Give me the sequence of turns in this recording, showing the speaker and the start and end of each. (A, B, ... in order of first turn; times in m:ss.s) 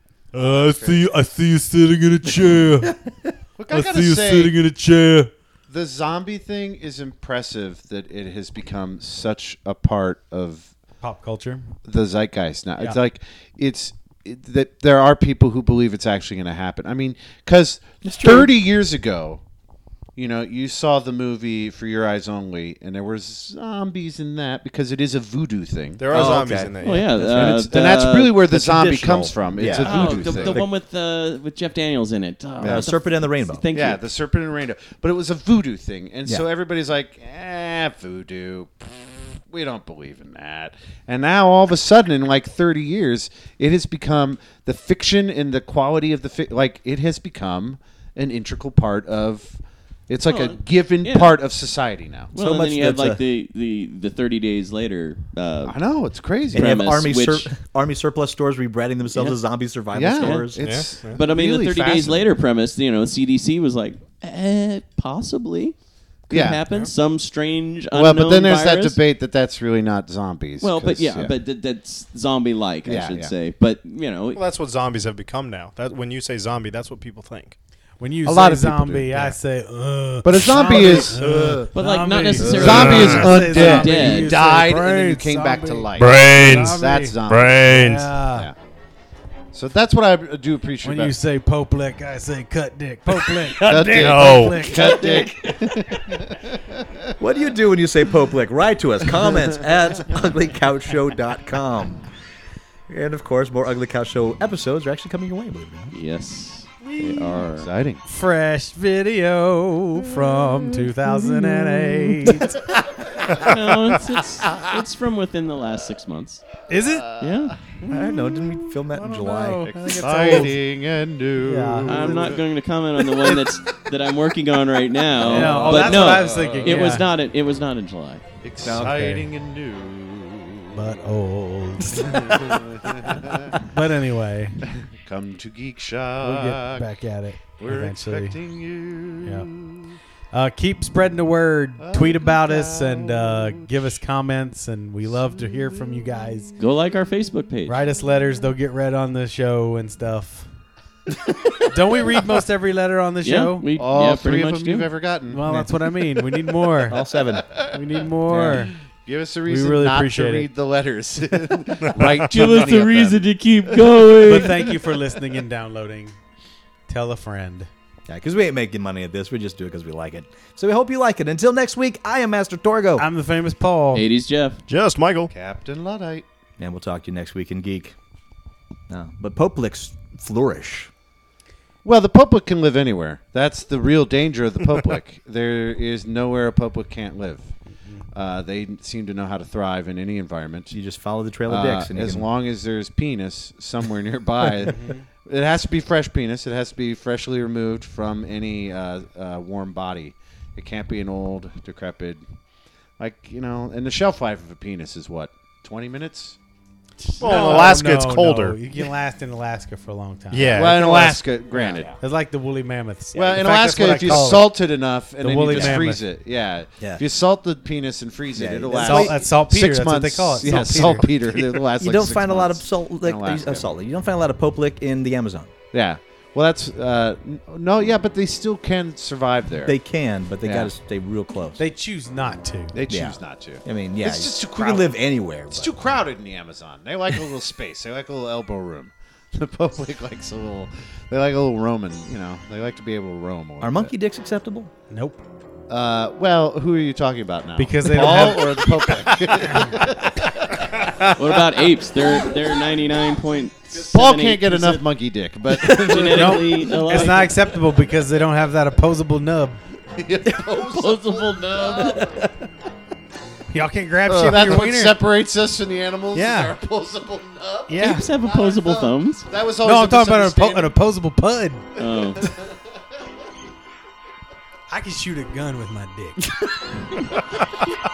0:00.3-0:03.0 A
0:00.4-0:01.0 B
0:02.8-0:03.3 C
0:03.6-0:04.6 B
0:03.7-0:05.3 A
0:05.7-0:10.7 B
0:11.0-0:11.7 A
0:11.9-0:19.4 B
0:18.0-0:18.5 C
0:20.2-0:30.6 B
0:26.0-0:27.3 D
0:26.1-0:30.7 C
0:26.8-0:28.3 E
0:29.8-0:34.0 E
0:32.6-0:32.9 B
0:32.6-0:33.6 C
0:33.7-0:52.3 B
0:50.3-0:51.4 E
0:52.3-0:55.8 E
0:52.4-0:53.2 C
0:55.6-0:56.8 B
0:56.5-0:57.5 E
0:56.5-1:00.8 C
0:59.1-0:59.4 E
0:59.9-1:02.3 B
1:00.2-1:05.8 E
1:00.6-1:01.2 D
1:06.3-1:09.0 E
1:06.3-1:06.6 B
1:07.9-1:11.4 B
1:10.6-1:14.4 E
1:12.8-1:13.3 B
1:14.3-1:17.5 D
1:18.0-1:28.5 A
1:18.2-1:19.4 B
1:20.2-1:21.2 B
1:21.0-1:21.7 C
1:21.7-1:24.3 E
1:22.5-1:28.5 B
1:22.6-1:23.3 D
1:26.0-1:28.1 D
1:29.5-1:31.2 B
1:30.8-1:35.1 A
1:33.5-1:37.1 B
1:33.9-1:34.6 D
1:34.7-1:36.0 C
1:37.2-1:42.0 C
1:42.9-1:45.9 C
1:45.9-1:47.5 E
1:46.9-1:47.3 A
1:47.0-1:48.0 B
1:48.0-1:52.6 A
1:53.2-1:56.4 E
1:56.7-1:57.2 A
1:57.2-1:57.8 E
1:57.8-2:00.0 C
1:58.9-2:00.6 A
1:59.7-2:02.4 B
1:59.9-2:00.5 D
2:01.4-2:02.4 A
2:01.8-2:08.2 E
2:05.2-2:05.9 C
2:05.2-2:07.1 A
2:05.3-2:07.0 B
2:08.4-2:10.9 B
2:08.6-2:09.0 C
2:08.8-2:09.2 A
2:10.7-2:12.3 A
2:12.0-2:13.6 B
2:13.6-2:14.6 A
2:14.8-2:16.8 B
2:16.2-2:18.4 A
2:17.6-2:20.0 B
2:19.2-2:19.5 A
2:20.3-2:26.5 A
2:21.8-2:23.9 B
2:26.6-2:27.8 E
2:27.6-2:30.5 A
2:31.6-2:33.6 A
2:33.2-2:34.9 E
2:33.8-2:36.8 B
2:35.3-2:37.0 A
2:36.9-2:37.5 C
2:37.4-2:44.7 B
2:37.7-2:38.7 A
2:38.3-2:38.7 C
2:39.5-2:40.5 A
2:42.3-2:44.7 E
2:44.2-2:46.2 A
2:46.9-2:47.7 A
2:48.1-2:53.1 C
2:53.0-2:54.0 A
2:53.9-2:54.6 E
2:54.7-2:55.3 D
2:55.3-2:56.2 B
2:56.6-2:57.9 C
2:58.9-3:00.9 C
3:01.8-3:07.5 B
3:08.1-3:10.8 B
3:10.7-3:12.3 C
3:11.5-3:22.2 B
3:23.0-3:26.4 B
3:27.1-3:30.7 A
3:27.2-3:28.6 D
3:27.2-3:27.7 B
3:30.3-3:31.2 D
3:30.5-3:31.9 B
3:31.5-3:31.9 E
3:32.0-3:34.6 A
3:33.1-3:43.7 B
3:35.2-3:36.0 A
3:35.5-3:35.8 C
3:38.4-3:39.2 C
3:38.7-3:41.2 A
3:40.4-3:41.0 C
3:41.7-3:45.5 C
3:45.7-3:49.8 B
3:49.6-3:51.6 C
3:50.4-3:50.7 B
3:51.6-3:52.8 A
3:52.7-3:54.9 B
3:52.9-3:55.7 C
3:55.5-4:03.9 B
4:03.6-4:04.7 C
4:04.9-4:05.2 A
4:05.7-4:11.1 B
4:07.6-4:08.8 A
4:10.8-4:14.8 E
4:13.7-4:16.7 B
4:15.7-4:17.4 E
4:16.0-4:19.6 A
4:19.9-4:22.3 B
4:20.7-4:22.2 E
4:23.5-4:25.0 A
4:24.0-4:30.8 B
4:26.1-4:26.6 A
4:27.7-4:28.1 A
4:27.8-4:29.3 E
4:29.6-4:31.7 A
4:31.8-4:32.2 E
4:32.2-4:32.5 B
4:34.7-4:36.3 A